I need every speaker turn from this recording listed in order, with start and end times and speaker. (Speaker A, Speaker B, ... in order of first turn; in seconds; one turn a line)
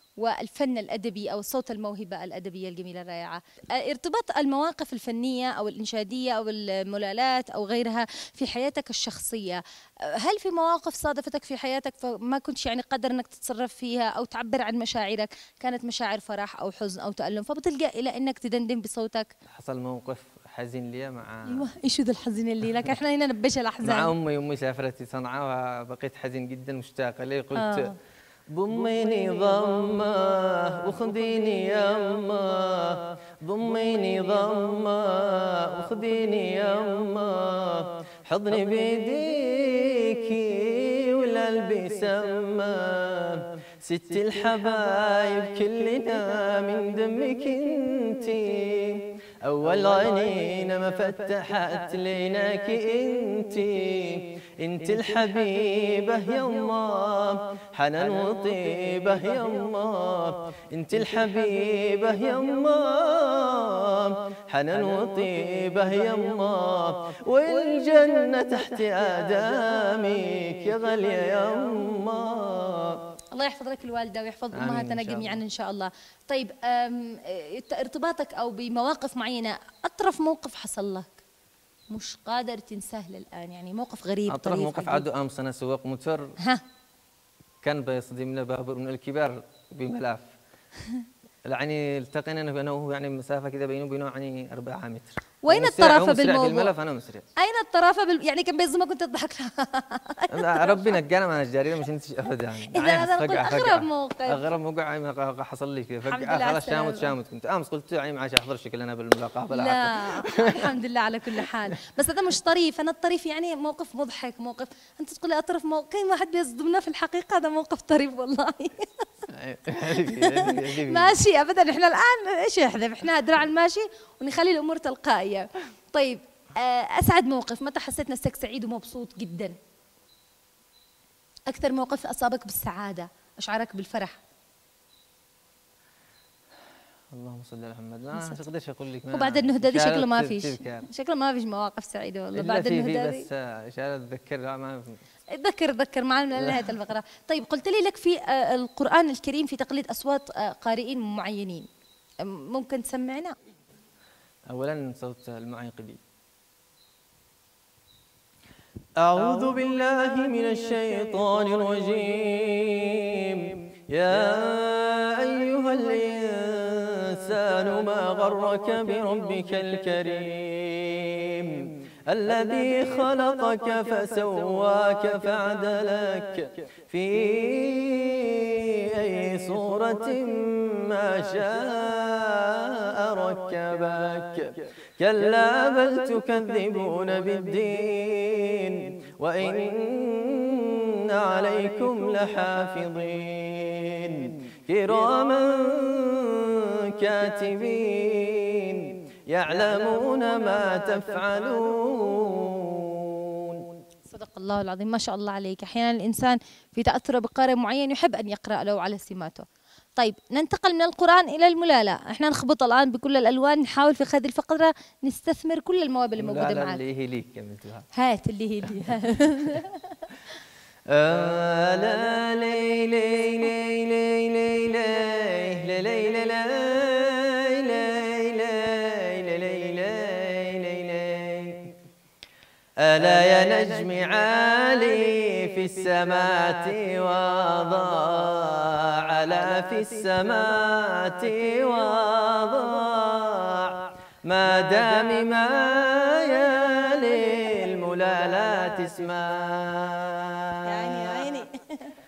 Speaker A: 0.2-19.3
Speaker B: 19.5-21.7
Speaker A: 21.5-24.1
Speaker B: 23.8-27.9
Speaker A: 27.6-27.9
Speaker B: 28.5-73.0
Speaker A: 73.3-81.2
Speaker B: 74.5-75.4
Speaker A: 81.9-85.0
Speaker B: 84.3-86.3
Speaker B: 87.6-90.3
Speaker B: 91.5-97.2
Speaker A: 95.4-96.7
Speaker A: 97.4-100.9
Speaker B: 100.3-110.7
Speaker A: 102.7-104.4
Speaker A: 106.1-107.1
Speaker A: 109.5-119.0
Speaker B: 119.3-121.2
Speaker A: 119.9-129.5
Speaker A: 131.5-134.2
Speaker B: 137.1-140.9
Speaker A: 139.1-143.2
Speaker B: 142.3-145.0
Speaker A: 145.3-151.7
Speaker B: 146.3-146.7
Speaker A: 152.2-153.3
Speaker B: 154.5-156.0
Speaker B: 159.0-203.6
Speaker A: 204.1-209.4
Speaker A: 209.9-216.8
Speaker B: 216.2-217.8
Speaker A: 217.9-220.0
Speaker B: 220.9-231.7
Speaker B: 232.8-251.3
Speaker A: 250.7-251.9